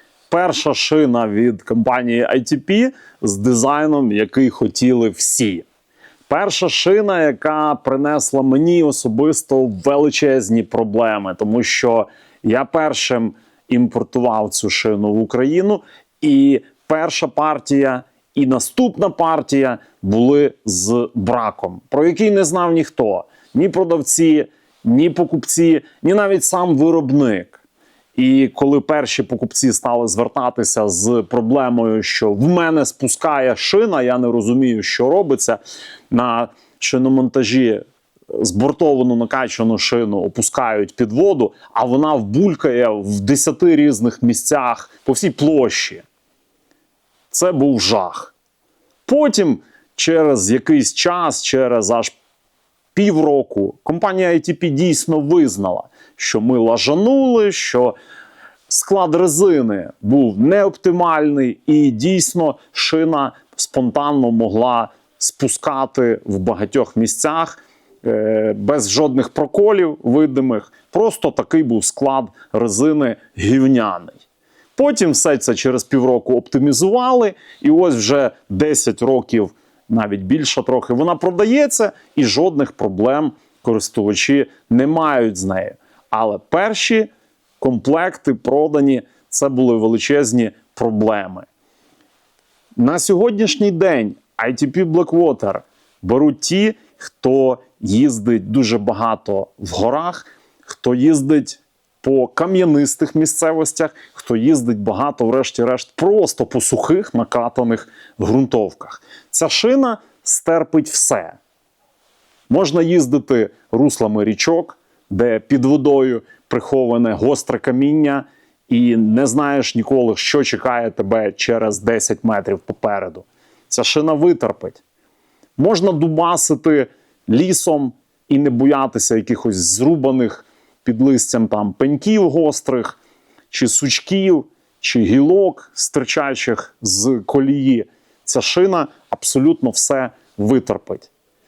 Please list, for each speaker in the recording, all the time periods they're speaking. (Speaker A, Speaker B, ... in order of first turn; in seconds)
Speaker A: 0.3-5.7, 6.3-27.6, 28.2-35.6, 36.1-46.1, 47.3-48.3, 49.1-52.1, 52.9-58.0, 58.7-74.2, 74.8-87.1, 87.6-91.5, 92.8-111.4, 112.5-124.8, 125.6-133.0, 133.5-141.1